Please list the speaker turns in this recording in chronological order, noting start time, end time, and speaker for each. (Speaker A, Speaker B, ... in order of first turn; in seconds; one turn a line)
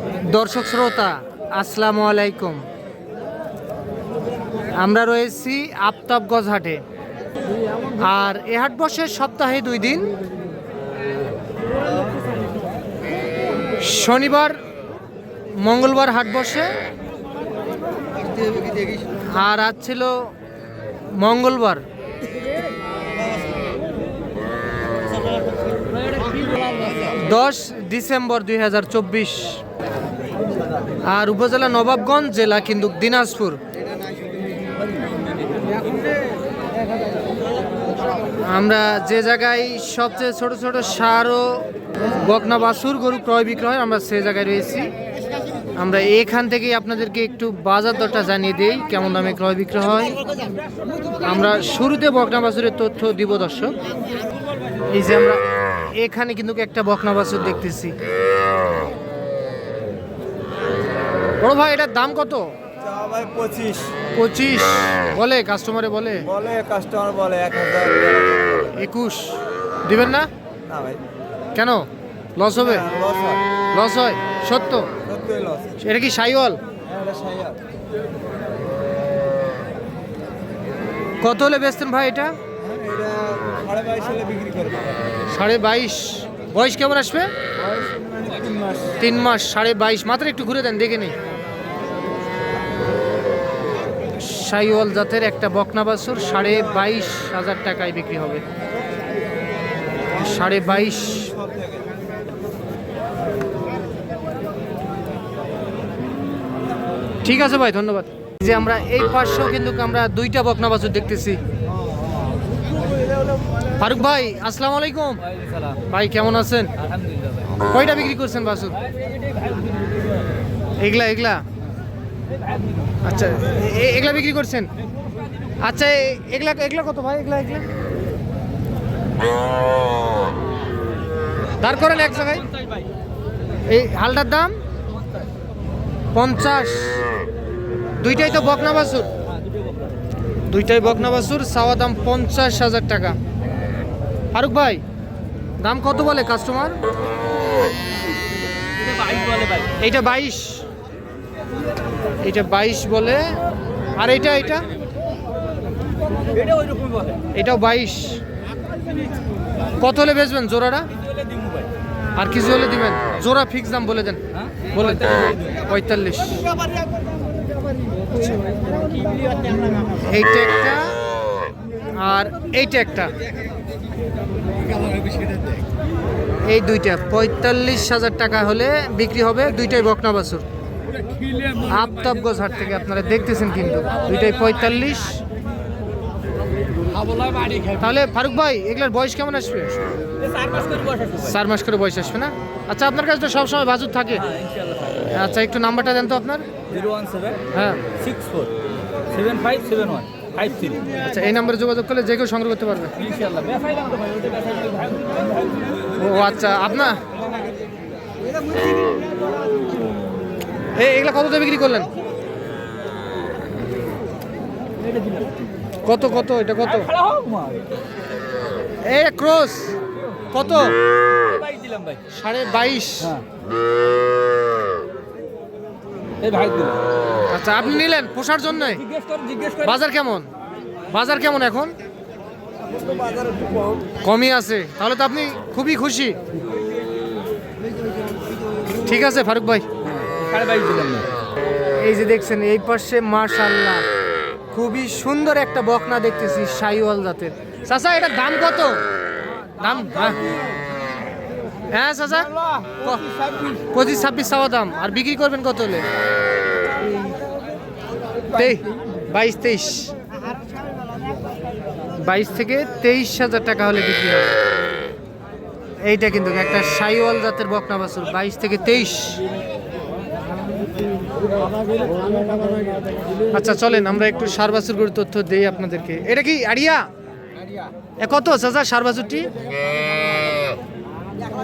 Speaker A: 0.2-2.7
Speaker A: 4.7-6.8
Speaker A: 8.0-10.1
Speaker A: 13.8-14.6
Speaker A: 15.5-16.7
Speaker B: 18.4-19.0
Speaker A: 19.2-20.3
Speaker A: 21.1-21.8
Speaker A: 27.1-29.6
Speaker A: 31.0-33.6
Speaker A: 38.4-44.9
Speaker A: 45.8-50.2
Speaker A: 51.2-53.8
Speaker A: 54.9-58.0
Speaker A: 61.4-62.5
Speaker B: 62.8-63.9
Speaker A: 64.1-66.3
Speaker B: 66.3-68.7
Speaker A: 68.7-70.3
Speaker B: 70.7-71.0
Speaker A: 71.5-72.9
Speaker B: 72.8-73.4
Speaker A: 73.7-74.9
Speaker B: 75.0-75.8
Speaker A: 75.8-76.6
Speaker B: 76.8-77.6
Speaker A: 81.2-82.3
Speaker B: 82.6-85.1
Speaker A: 85.3-87.3
Speaker B: 87.6-89.0
Speaker A: 89.0-91.2
Speaker A: 94.2-98.4
Speaker A: 100.1-101.3
Speaker B: 101.5-101.8
Speaker A: 107.2-111.4
Speaker A: 113.7-115.2
Speaker C: 115.3-115.8
Speaker A: 115.9-116.7
Speaker C: 116.8-117.5
Speaker A: 117.6-118.8
Speaker C: 119.0-119.9
Speaker A: 120.8-121.4
Speaker A: 123.0-124.7
Speaker A: 125.6-127.7
Speaker A: 131.6-132.4
Speaker A: 133.7-134.6
Speaker A: 136.1-137.0
Speaker A: 138.0-139.1
Speaker A: 140.5-143.2
Speaker A: 144.3-144.8
Speaker A: 145.6-146.8
Speaker C: 148.8-149.7
Speaker A: 149.8-150.7
Speaker A: 152.2-153.4
Speaker A: 153.9-154.7
Speaker C: 156.3-157.2
Speaker A: 157.3-158.2
Speaker A: 159.8-160.9
Speaker C: 161.1-161.7
Speaker A: 162.2-166.5
Speaker C: 164.3-165.5
Speaker A: 170.0-171.0
Speaker A: 171.9-173.1
Speaker A: 176.4-180.5
Speaker C: 181.2-181.6
Speaker A: 181.6-185.2
Speaker C: 187.0-187.8
Speaker A: 187.8-189.8
Speaker C: 190.2-191.3
Speaker A: 191.2-194.3
Speaker C: 194.3-195.0
Speaker A: 195.0-196.5
Speaker C: 196.7-197.4
Speaker A: 197.5-197.8
Speaker C: 198.0-198.5
Speaker C: 199.1-200.8
Speaker A: 201.0-203.0
Speaker C: 203.0-205.7
Speaker A: 205.9-207.0
Speaker A: 210.8-211.9
Speaker C: 214.8-215.3
Speaker A: 215.9-216.9
Speaker C: 216.7-217.7
Speaker A: 218.8-219.8
Speaker A: 220.3-220.8
Speaker C: 221.2-222.0
Speaker A: 222.1-223.2
Speaker C: 226.2-226.8
Speaker A: 227.3-228.8
Speaker C: 228.8-229.8
Speaker A: 229.6-230.3
Speaker A: 230.9-231.8
Speaker B: 232.7-233.8
Speaker A: 234.0-236.2
Speaker A: 238.8-239.7
Speaker C: 239.8-241.1
Speaker A: 241.8-243.9
Speaker A: 244.5-248.8
Speaker A: 249.6-250.2
Speaker A: 251.7-253.1
Speaker C: 252.6-253.6
Speaker A: 253.7-255.9
Speaker A: 258.3-259.9
Speaker A: 262.0-264.4
Speaker A: 265.8-269.2
Speaker A: 273.3-276.9
Speaker A: 278.0-279.3